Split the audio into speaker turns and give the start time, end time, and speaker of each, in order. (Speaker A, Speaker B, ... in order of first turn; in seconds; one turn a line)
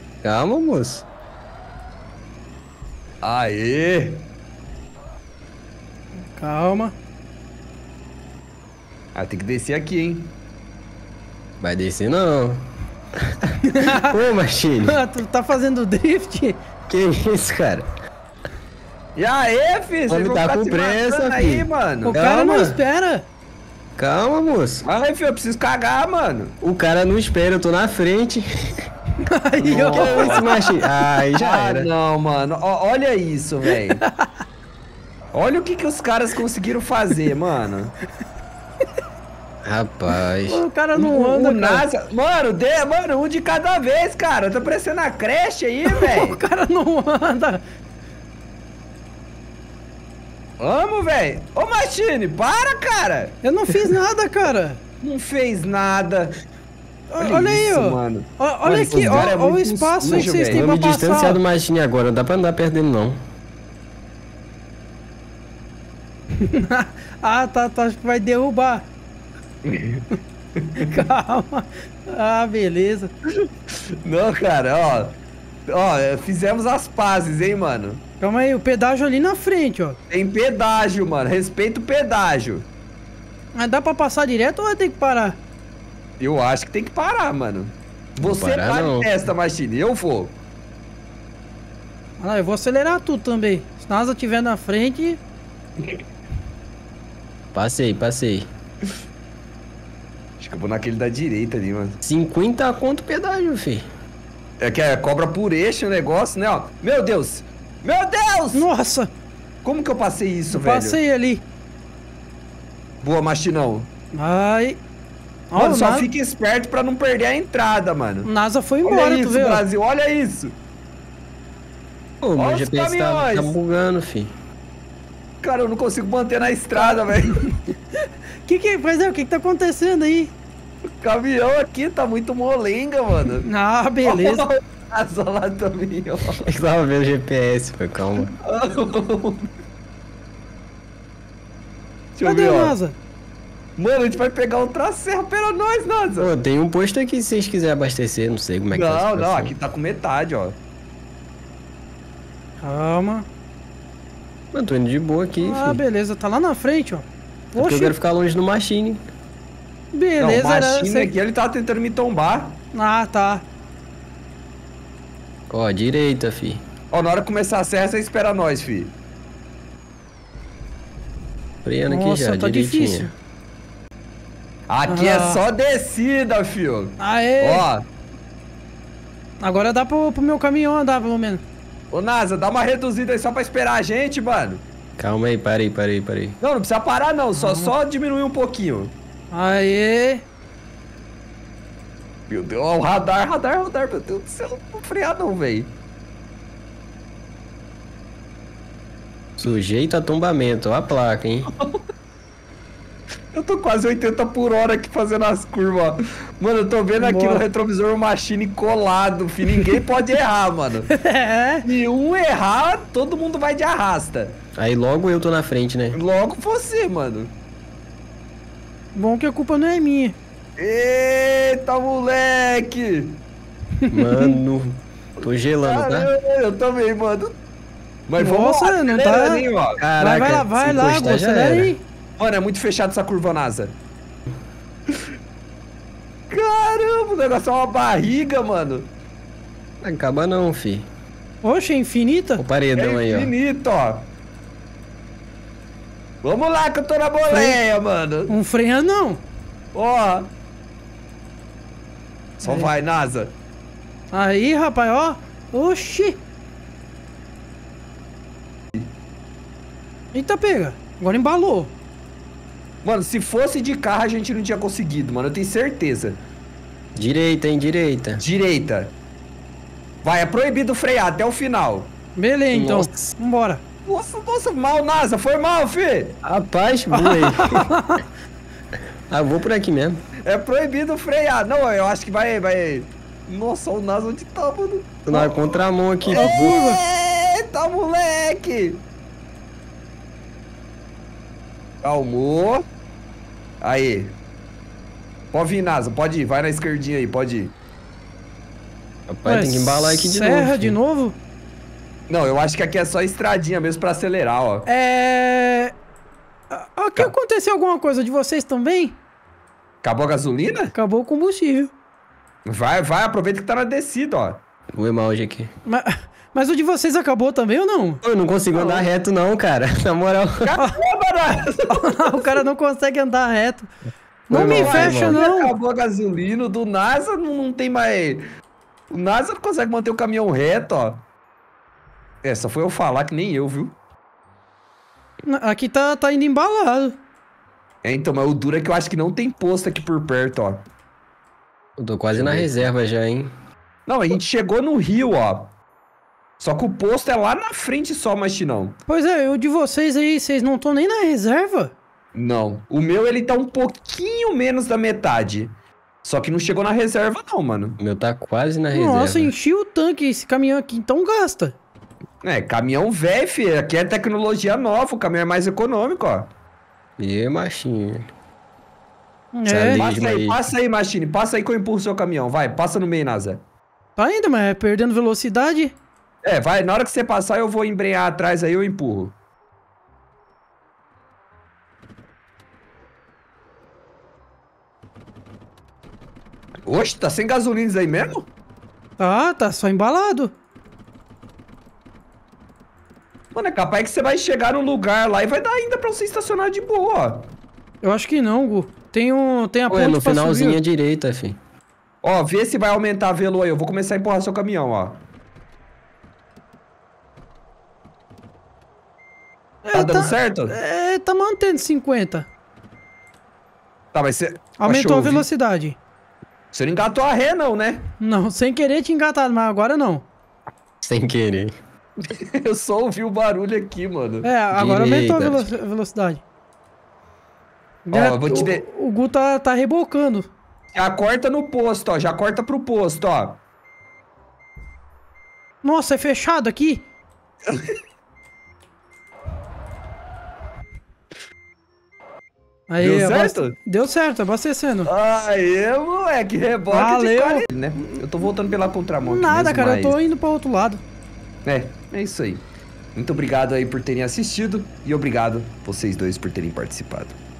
Speaker A: 0.2-1.0
Speaker B: 3.2-4.2
Speaker C: 6.3-6.9
Speaker B: 9.1-10.3
Speaker A: 11.6-12.6
Speaker A: 13.2-15.0
Speaker C: 13.6-14.2
Speaker C: 14.8-16.6
Speaker A: 16.9-17.9
Speaker B: 19.1-22.1
Speaker A: 20.1-22.8
Speaker C: 22.0-23.2
Speaker A: 23.9-24.8
Speaker B: 24.8-26.5
Speaker A: 26.6-28.9
Speaker C: 29.2-30.8
Speaker B: 29.6-30.5
Speaker A: 29.9-31.9
Speaker B: 31.4-34.0
Speaker C: 34.0-34.3
Speaker B: 35.3-37.9
Speaker A: 39.6-40.6
Speaker C: 40.5-41.8
Speaker B: 40.9-46.4
Speaker C: 45.9-47.6
Speaker B: 50.6-53.4
Speaker C: 53.4-54.8
Speaker B: 55.0-56.3
Speaker C: 57.1-61.4
Speaker B: 57.2-60.6
Speaker A: 60.4-63.2
Speaker C: 66.3-68.8
Speaker B: 69.6-71.0
Speaker C: 70.8-73.1
Speaker B: 74.0-75.2
Speaker B: 75.7-78.0
Speaker C: 78.2-80.0
Speaker B: 80.1-82.7
Speaker C: 83.5-85.4
Speaker B: 86.2-90.3
Speaker A: 88.2-89.1
Speaker C: 92.2-95.2
Speaker A: 97.5-98.5
Speaker B: 100.4-102.0
Speaker A: 102.0-103.8
Speaker B: 104.6-108.7
Speaker C: 108.5-109.1
Speaker B: 109.6-111.0
Speaker C: 110.5-111.4
Speaker B: 113.0-113.9
Speaker C: 114.1-114.8
Speaker C: 115.5-116.1
Speaker B: 115.6-118.3
Speaker C: 118.2-119.6
Speaker B: 118.8-120.5
Speaker A: 122.2-124.3
Speaker B: 122.3-123.5
Speaker B: 125.4-127.5
Speaker C: 126.7-127.6
Speaker C: 128.4-130.3
Speaker B: 131.0-133.4
Speaker C: 133.4-134.5
Speaker B: 134.0-136.5
Speaker A: 136.4-138.3
Speaker B: 138.4-139.5
Speaker B: 142.1-142.8
Speaker C: 142.2-142.9
Speaker B: 143.8-146.3
Speaker A: 146.2-149.5
Speaker B: 148.7-150.6
Speaker C: 152.6-153.2
Speaker A: 154.5-155.8
Speaker C: 155.4-157.9
Speaker A: 157.6-159.0
Speaker C: 159.9-161.1
Speaker B: 160.2-162.6
Speaker C: 162.7-163.4
Speaker A: 165.5-166.6
Speaker B: 166.9-168.9
Speaker A: 171.6-173.1
Speaker C: 171.9-173.1
Speaker B: 174.7-177.8
Speaker C: 174.9-175.4
Speaker C: 177.0-177.7
Speaker C: 179.4-181.4
Speaker B: 181.9-184.6
Speaker A: 185.0-186.4
Speaker B: 186.4-188.9
Speaker C: 187.4-187.7
Speaker C: 189.3-190.2
Speaker B: 192.3-195.7
Speaker A: 199.4-201.5
Speaker B: 203.3-210.9
Speaker C: 207.0-207.4
Speaker C: 210.9-211.6
Speaker B: 211.6-214.4
Speaker A: 214.6-216.0
Speaker B: 215.9-217.3
Speaker C: 218.9-220.2
Speaker B: 220.6-223.2
Speaker C: 223.8-224.4
Speaker A: 223.9-226.1
Speaker B: 225.6-227.3
Speaker B: 228.1-229.8
Speaker C: 228.2-229.4
Speaker A: 229.8-231.7
Speaker C: 230.0-231.8
Speaker B: 232.2-233.7
Speaker B: 236.3-238.9
Speaker A: 239.8-240.9
Speaker C: 241.4-242.4
Speaker A: 242.4-243.3
Speaker B: 242.8-244.1
Speaker B: 246.2-248.3
Speaker C: 247.3-247.6
Speaker C: 248.3-249.2
Speaker B: 249.7-250.3
Speaker B: 252.4-253.3
Speaker C: 252.4-252.7
Speaker C: 254.1-256.2
Speaker C: 260.1-261.7
Speaker B: 262.8-266.2
Speaker A: 266.9-268.2
Speaker B: 268.2-268.9
Speaker B: 270.0-271.9
Speaker C: 272.1-273.6
Speaker A: 272.5-273.1
Speaker B: 273.9-276.2
Speaker A: 276.2-277.7
Speaker C: 276.9-278.0
Speaker A: 279.1-280.0
Speaker B: 280.2-288.8
Speaker A: 285.1-286.6
Speaker C: 286.2-286.8
Speaker B: 291.8-292.6
Speaker B: 293.6-294.1
Speaker B: 295.3-297.5
Speaker A: 299.1-300.8
Speaker C: 299.2-301.2
Speaker B: 302.1-304.7
Speaker C: 304.6-305.7
Speaker C: 306.5-309.0
Speaker B: 309.8-310.7
Speaker C: 310.7-311.7
Speaker B: 312.4-314.4
Speaker A: 314.7-315.5
Speaker C: 315.6-318.0
Speaker A: 318.0-320.5
Speaker B: 318.5-318.9
Speaker B: 320.4-322.3
Speaker C: 321.7-323.7
Speaker A: 324.3-325.2
Speaker C: 324.3-325.5
Speaker B: 324.3-328.2
Speaker B: 328.9-331.0
Speaker B: 332.2-333.7
Speaker C: 335.3-337.0
Speaker B: 337.8-340.6
Speaker A: 341.8-343.3
Speaker B: 342.1-342.5
Speaker B: 343.9-345.5
Speaker B: 346.4-348.8
Speaker C: 348.9-351.7
Speaker B: 352.1-357.8
Speaker A: 357.8-359.3
Speaker C: 358.7-361.6
Speaker B: 362.2-366.3
Speaker A: 367.0-368.1
Speaker C: 369.3-369.8
Speaker A: 369.5-370.4
Speaker B: 369.7-373.4
Speaker C: 374.0-375.7
Speaker B: 376.2-379.1
Speaker B: 386.6-388.3
Speaker C: 389.0-390.3
Speaker B: 393.3-397.3
Speaker C: 397.8-400.6
Speaker A: 399.7-401.4
Speaker B: 402.0-405.0
Speaker C: 409.6-412.3
Speaker B: 409.7-410.6
Speaker B: 413.9-415.2
Speaker C: 414.6-415.8
Speaker B: 416.5-417.9
Speaker C: 418.0-420.0
Speaker A: 420.8-421.5
Speaker B: 422.1-424.3
Speaker C: 424.2-426.2
Speaker A: 424.5-425.5
Speaker C: 427.9-430.3
Speaker B: 427.9-428.6
Speaker B: 430.7-433.4
Speaker C: 435.6-436.8
Speaker B: 437.5-437.8
Speaker C: 442.7-444.9
Speaker B: 442.8-443.5
Speaker B: 444.9-450.0
Speaker C: 446.7-448.0
Speaker C: 449.0-450.8
Speaker B: 451.4-452.4
Speaker B: 452.9-457.2